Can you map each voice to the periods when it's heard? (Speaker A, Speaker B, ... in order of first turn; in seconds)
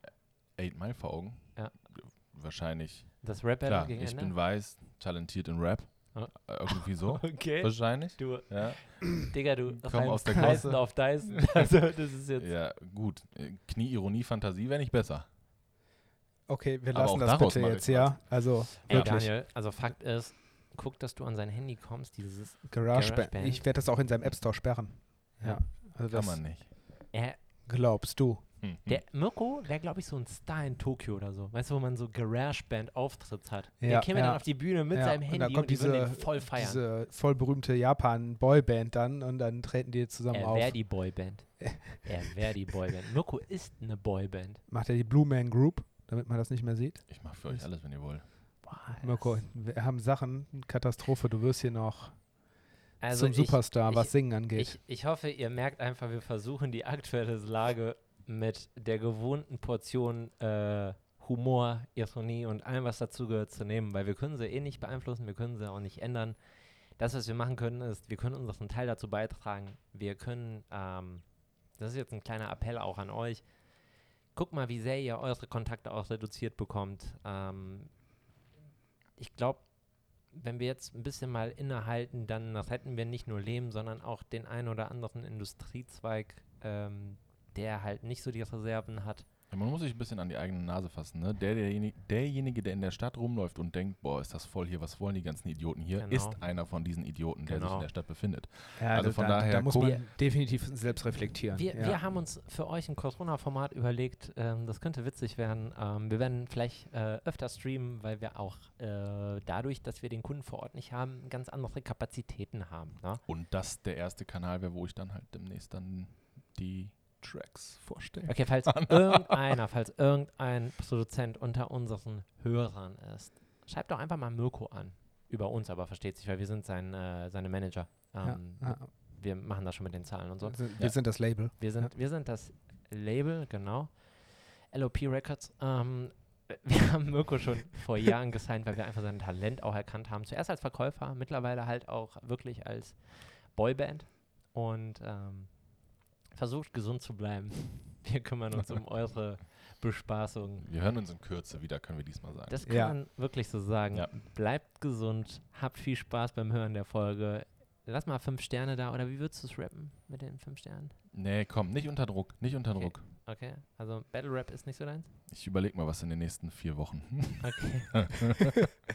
Speaker A: 0.6-11.7, 12.4-15.3, 16.9-19.2, 26.1-26.7, 28.6-29.0, 47.1-48.3, 89.5-100.0, 113.3-119.5, 150.6-152.6, 161.1-163.1, 165.3-168.6
Speaker B: 3.2-4.3, 6.1-12.5, 18.9-23.6, 27.1-27.4, 28.9-36.8, 40.3-44.6, 48.6-49.4, 53.0-66.4, 67.0-71.2, 71.8-73.4, 74.3-77.9, 79.2-79.6, 80.3-89.3, 96.0-96.4, 97.5-97.9, 99.8-100.0, 101.5-113.2, 118.3-130.8, 131.6-133.9, 134.7-143.0, 143.5-145.8, 146.3-150.7, 152.5-161.0, 162.7-165.1, 167.4-168.2
Speaker C: 16.5-19.3, 22.7-26.4, 27.6-28.4, 33.8-40.9, 41.6-42.0, 44.7-47.6, 49.0-52.2, 53.1-54.8, 98.8-102.0, 128.2-128.9, 130.4-131.9, 152.7-153.0